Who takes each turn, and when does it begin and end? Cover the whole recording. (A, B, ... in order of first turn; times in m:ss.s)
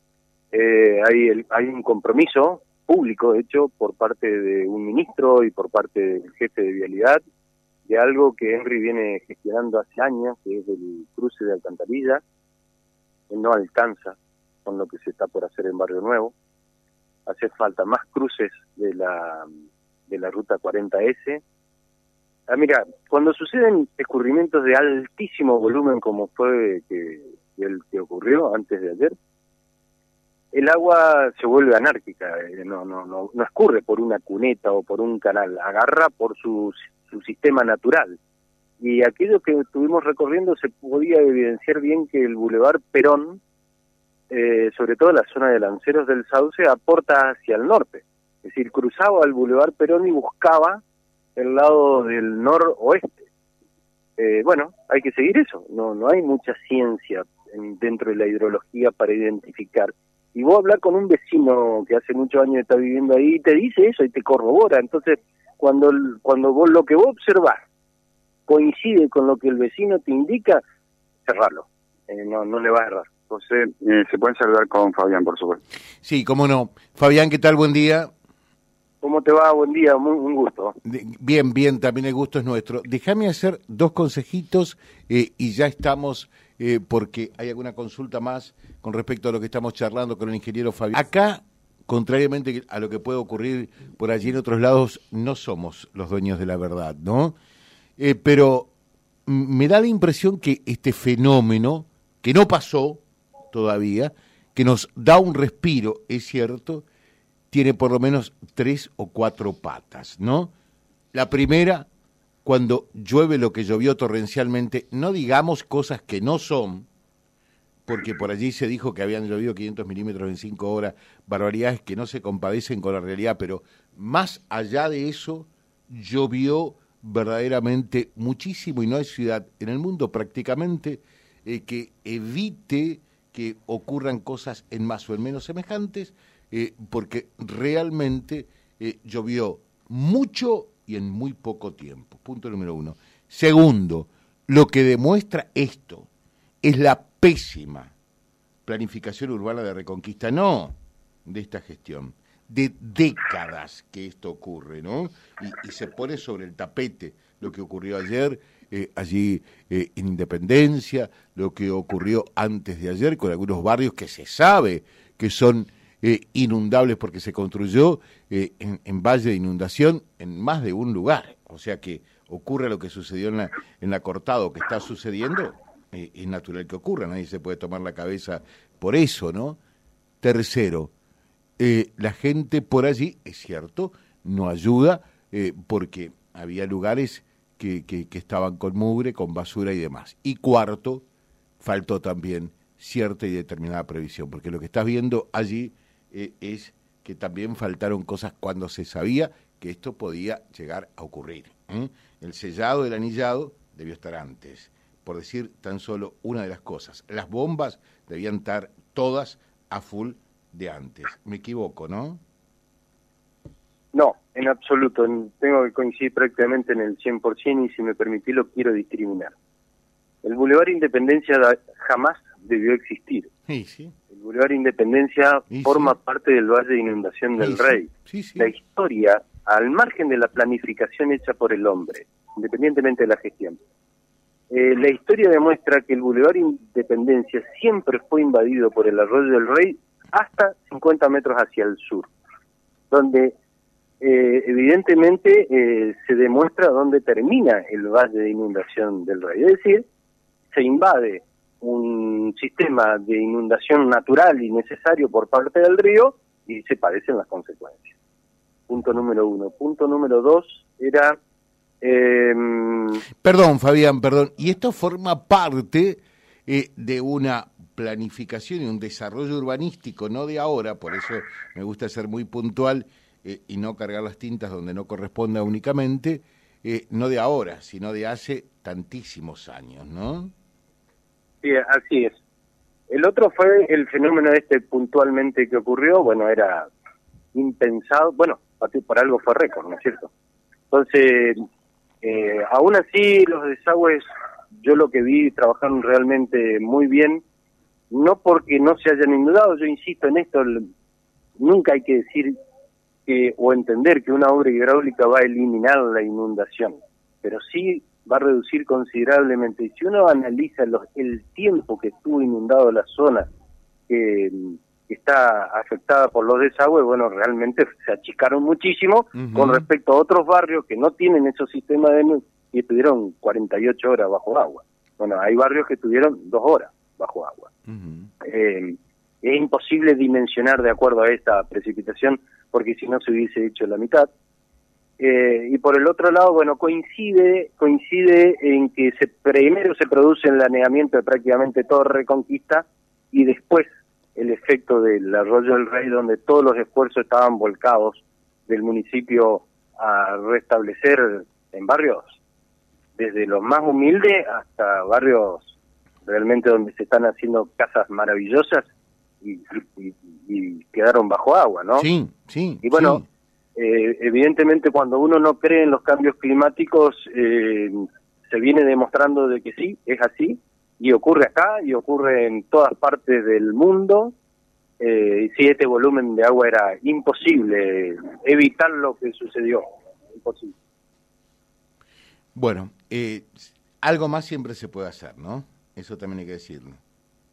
0:00.5-0:07.2 A
0:07.8-0:12.2 A
0:13.3-0:16.3 A
0:17.2-0:19.5 A
0:20.1-0:21.4 A
0:22.5-0:29.1 A
0:30.5-0:38.2 A
0:38.8-0:43.4 A
0:44.3-0:50.8 A
0:51.4-0:53.3 A
0:54.2-1:07.6 A
1:08.5-1:10.6 A
1:11.2-1:13.1 A
1:13.3-1:15.6 B
1:16.0-1:18.1 C
1:19.0-1:20.8 A
1:20.8-1:37.3 C
1:38.0-1:38.7 C
1:39.2-1:46.8 C
1:47.5-1:50.5 C
1:51.1-1:51.9 C
1:52.4-1:56.9 C
1:57.8-2:26.1 C
2:26.6-2:27.9 C
2:28.6-2:59.6 C
3:00.2-3:00.9 C
3:01.6-3:11.0 C
3:11.6-3:32.2 C
3:33.9-3:39.3 A
3:40.2-3:43.3 A
3:43.5-3:43.9 C
3:44.1-3:53.6 A
3:45.5-3:45.9 C
3:47.4-3:48.5 C
3:54.5-4:02.1 A
4:02.9-4:03.3 A
4:04.0-4:09.8 A
4:10.5-4:17.9 A
4:18.7-4:21.2 A
4:21.8-4:23.0 A
4:23.2-4:40.3 C
4:41.4-4:42.2 A
4:42.9-4:46.7 A
4:47.3-4:50.1 A
4:50.7-4:51.4 A
4:52.0-4:54.0 A
4:54.6-4:57.2 A
4:57.9-5:00.7 A
5:01.4-5:02.3 A
5:03.0-5:13.3 A
5:13.9-5:27.5 A
5:19.1-5:19.6 C
5:27.7-5:28.1 C
5:28.2-5:34.1 A
5:35.0-5:52.2 A
5:53.0-5:55.5 A
5:56.0-5:58.7 A
5:59.2-6:01.9 A
6:01.8-6:03.0 C
6:02.6-6:03.0 A
6:03.6-6:14.1 A
6:14.8-6:19.6 A
6:20.2-6:20.5 A
6:22.3-6:26.8 C